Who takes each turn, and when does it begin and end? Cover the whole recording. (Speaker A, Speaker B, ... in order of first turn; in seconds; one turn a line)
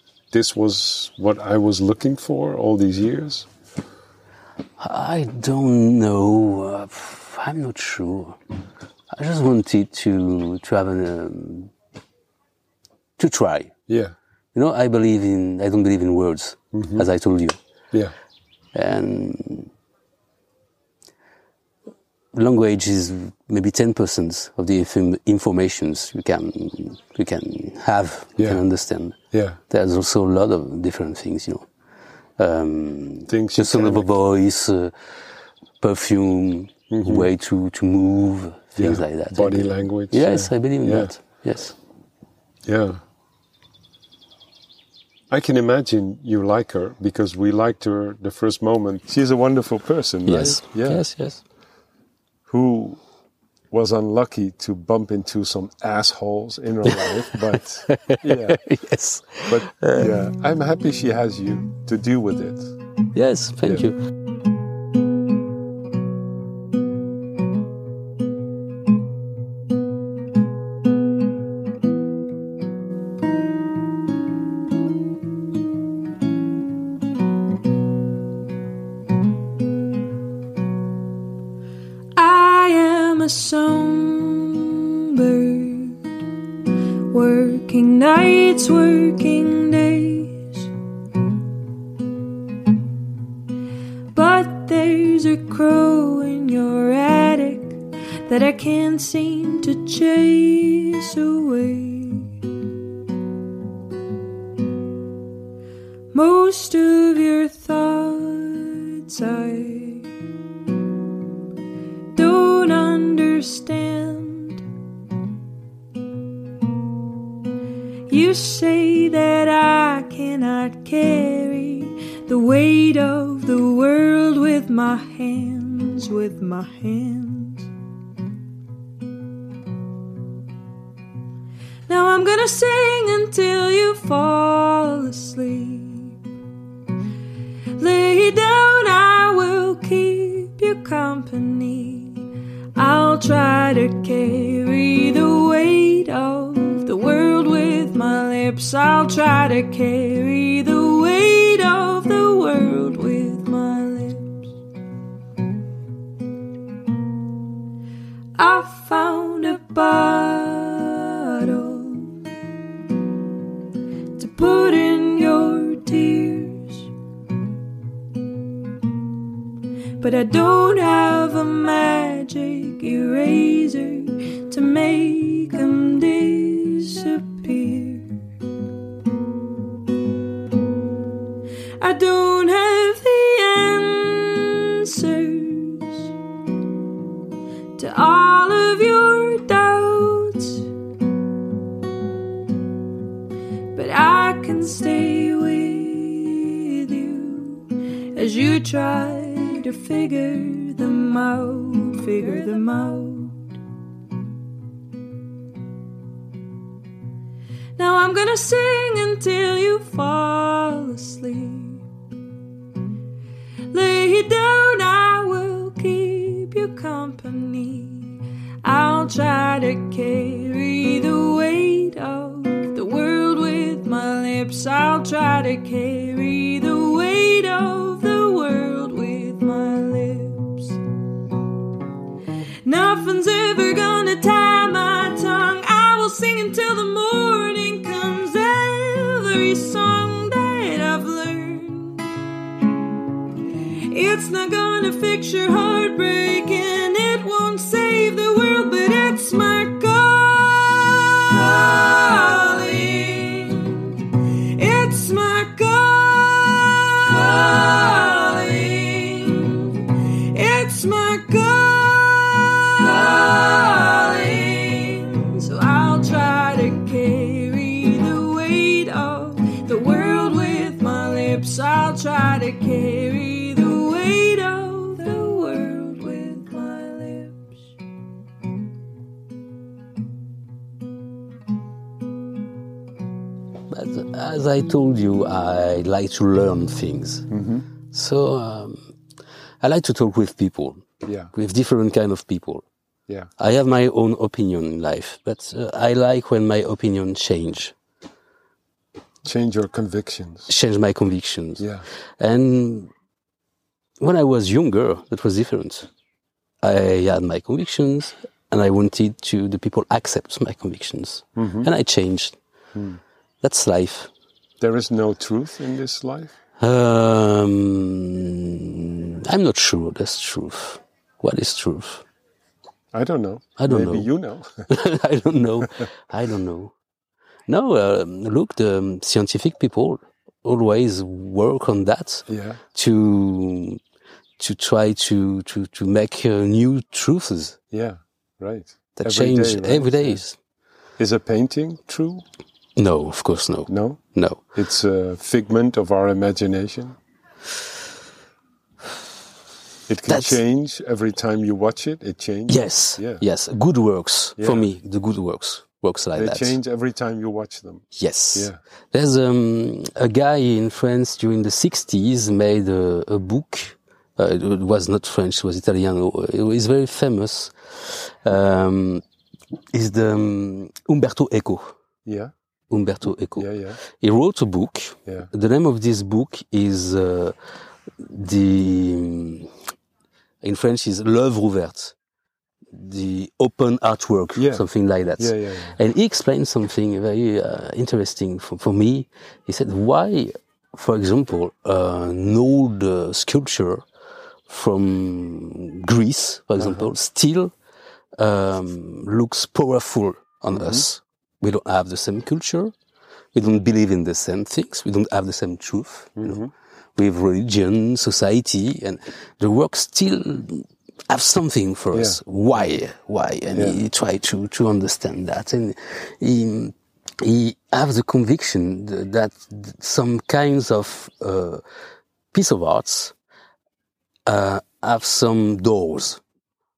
Speaker A: 0.3-3.5
Speaker B: 4.8-8.4
Speaker B: 9.1-11.7
Speaker B: 13.2-13.7
Speaker A: 13.9-14.1
Speaker B: 14.5-17.6
Speaker A: 16.7-17.1
Speaker B: 18.7-19.7
Speaker B: 22.3-29.1
Speaker A: 28.4-28.6
Speaker A: 29.3-29.6
Speaker B: 29.7-31.6
Speaker B: 32.4-34.9
Speaker A: 33.3-34.1
Speaker B: 35.8-41.7
Speaker A: 36.9-37.3
Speaker A: 38.8-41.1
Speaker A: 42.6-43.0
Speaker A: 45.3-51.0
Speaker B: 50.2-51.4
Speaker A: 52.5-53.0
Speaker A: 53.7-58.6
Speaker B: 56.9-60.1
Speaker A: 59.5-62.7
Speaker B: 63.1-64.0
Speaker C: 82.2-86.0
Speaker C: 87.1-90.7
Speaker C: 94.1-102.3
Speaker C: 106.1-110.1
Speaker C: 112.1-114.6
Speaker C: 118.1-127.7
Speaker C: 131.9-136.1
Speaker C: 137.8-142.2
Speaker C: 142.8-154.5
Speaker C: 158.3-162.1
Speaker C: 164.2-166.8
Speaker C: 170.0-178.1
Speaker C: 181.8-186.1
Speaker C: 187.8-190.6
Speaker C: 193.7-203.4
Speaker C: 207.8-211.8
Speaker C: 213.7-230.8
Speaker C: 232.6-242.1
Speaker C: 243.9-277.6
Speaker B: 283.7-287.3
Speaker A: 287.3-287.6
Speaker B: 287.9-288.9
Speaker B: 289.6-292.6
Speaker A: 291.0-291.3
Speaker B: 293.4-297.7
Speaker A: 299.2-300.5
Speaker B: 300.5-301.6
Speaker A: 301.6-301.8
Speaker B: 302.2-302.9
Speaker B: 304.0-305.9
Speaker B: 306.6-312.4
Speaker A: 311.4-311.7
Speaker A: 312.7-313.0
Speaker B: 313.4-314.1
Speaker A: 314.6-316.3
Speaker B: 316.6-322.0
Speaker A: 322.9-324.7
Speaker B: 323.6-324.1
Speaker B: 324.7-326.7
Speaker B: 327.5-333.8
Speaker A: 332.3-332.6
Speaker B: 334.4-337.6
Speaker A: 337.7-340.2
Speaker B: 339.0-340.4
Speaker A: 341.0-342.2
Speaker B: 342.8-344.4
Speaker A: 343.7-344.0
Speaker A: 344.5-346.9
Speaker A: 349.9-353.2
Speaker B: 350.1-350.4
Speaker B: 352.5-356.6
Speaker A: 354.4-354.7
Speaker A: 356.1-358.6
Speaker B: 357.9-369.0
Speaker B: 369.7-371.7
Speaker A: 372.1-372.3
Speaker B: 372.7-377.4
Speaker A: 373.4-373.8
Speaker B: 378.0-379.5
Speaker B: 380.4-381.9
Speaker B: 382.7-393.8
Speaker A: 384.4-384.6
Speaker A: 385.2-385.8
Speaker B: 394.5-397.5
Speaker A: 396.6-396.9
Speaker B: 398.1-402.7
Speaker A: 400.5-400.8
Speaker B: 403.3-406.4
Speaker A: 406.2-406.5
Speaker B: 406.9-421.6
Speaker A: 411.9-412.2
Speaker A: 413.5-413.8
Speaker B: 422.3-423.1
Speaker B: 424.2-426.2